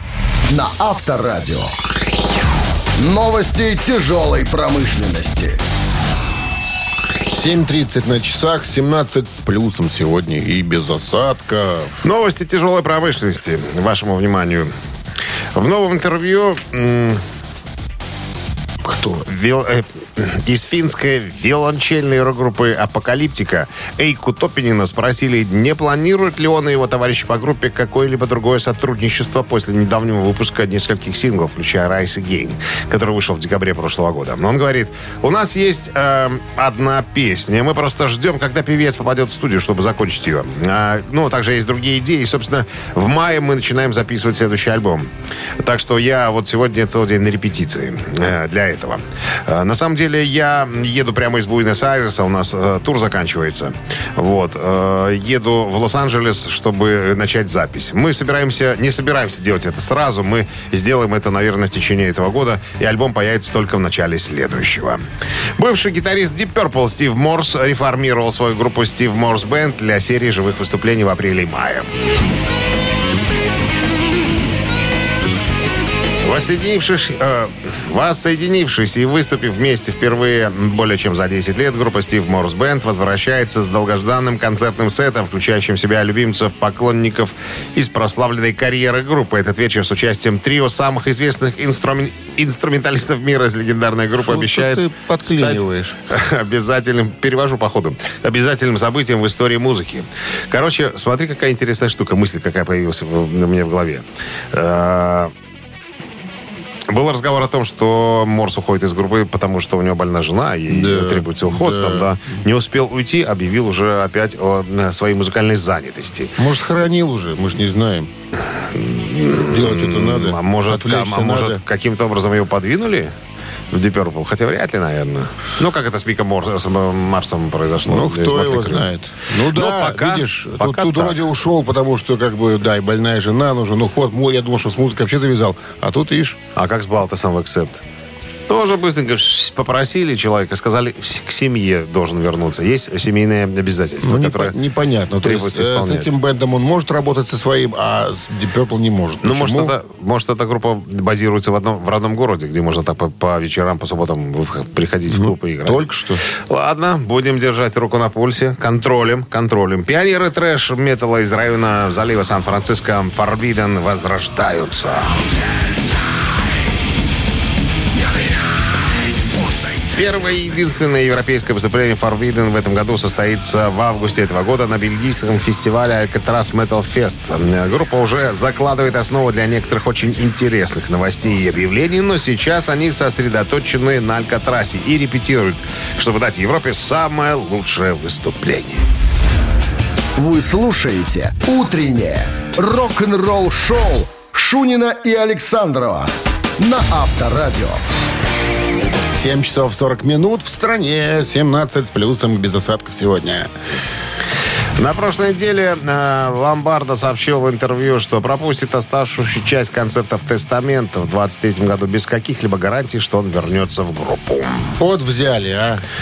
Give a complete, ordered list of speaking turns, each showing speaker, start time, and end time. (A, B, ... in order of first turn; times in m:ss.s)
0:00.5-0:01.7 A
0:03.0-0:05.6 A
0:07.3-0:12.0 B
0:12.0-0:14.7 C
0:15.5-0:17.2 C
0:18.8-0:19.2 B
0:19.3-1:05.0 C
1:05.6-1:11.9 C
1:16.2-1:45.3 C
1:34.2-1:36.0 B
1:46.9-1:56.3 C
1:50.7-1:52.1 B
1:56.4-1:58.1 B
1:58.7-2:03.1 C
1:59.5-2:01.6 B
2:03.7-2:08.8 C
2:07.9-2:16.4 B
2:09.4-2:11.2 C
2:16.6-2:17.8 C
2:18.5-2:24.5 C
2:24.0-2:29.7 B
2:25.2-2:26.1 C
2:29.2-2:45.2 C
2:35.1-2:36.2 B
2:49.9-3:08.8 C
3:10.2-3:17.8 A
3:19.1-3:23.5 B
3:24.8-3:34.8 C
3:34.8-3:35.8 B